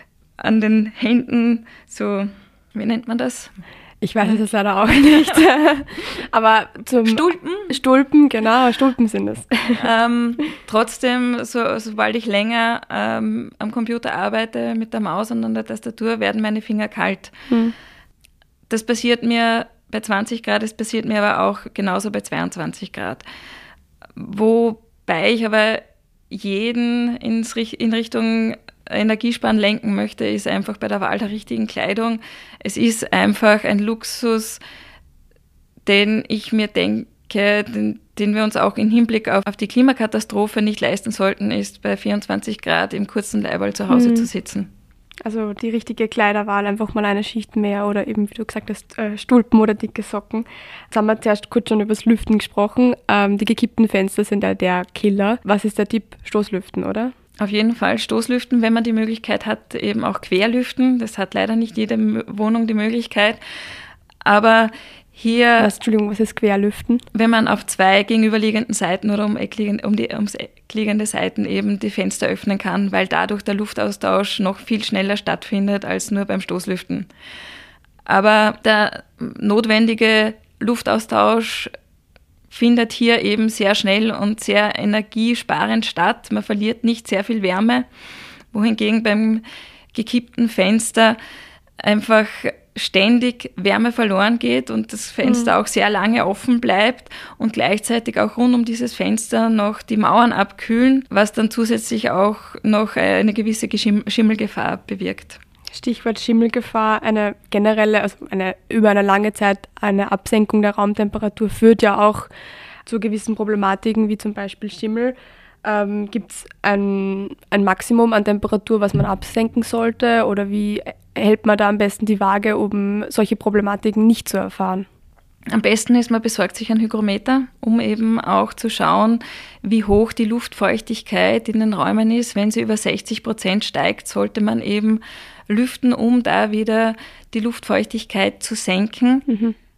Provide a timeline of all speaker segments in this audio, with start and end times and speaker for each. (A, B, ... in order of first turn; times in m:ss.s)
0:00.4-0:03.5 A
0:04.0-0:09.8 B
0:05.0-0:05.3 A
0:07.0-0:07.8 A
0:09.8-0:17.3 A
0:17.5-0:17.7 B
0:18.7-0:23.2 A
0:24.2-0:34.6 A
0:35.8-0:44.7 A
0:43.9-0:44.3 B
0:45.2-0:57.1 B
0:57.4-1:03.4 A
1:04.2-1:05.7 A
1:05.6-1:07.0 B
1:07.1-1:17.1 A
1:18.1-1:21.7 A
1:22.5-1:27.9 A
1:28.5-1:31.2 A
1:31.8-1:45.4 A
1:35.2-1:35.5 B
1:45.7-1:52.3 B
1:52.8-2:04.8 B
2:05.5-2:19.3 A
2:19.3-2:19.5 B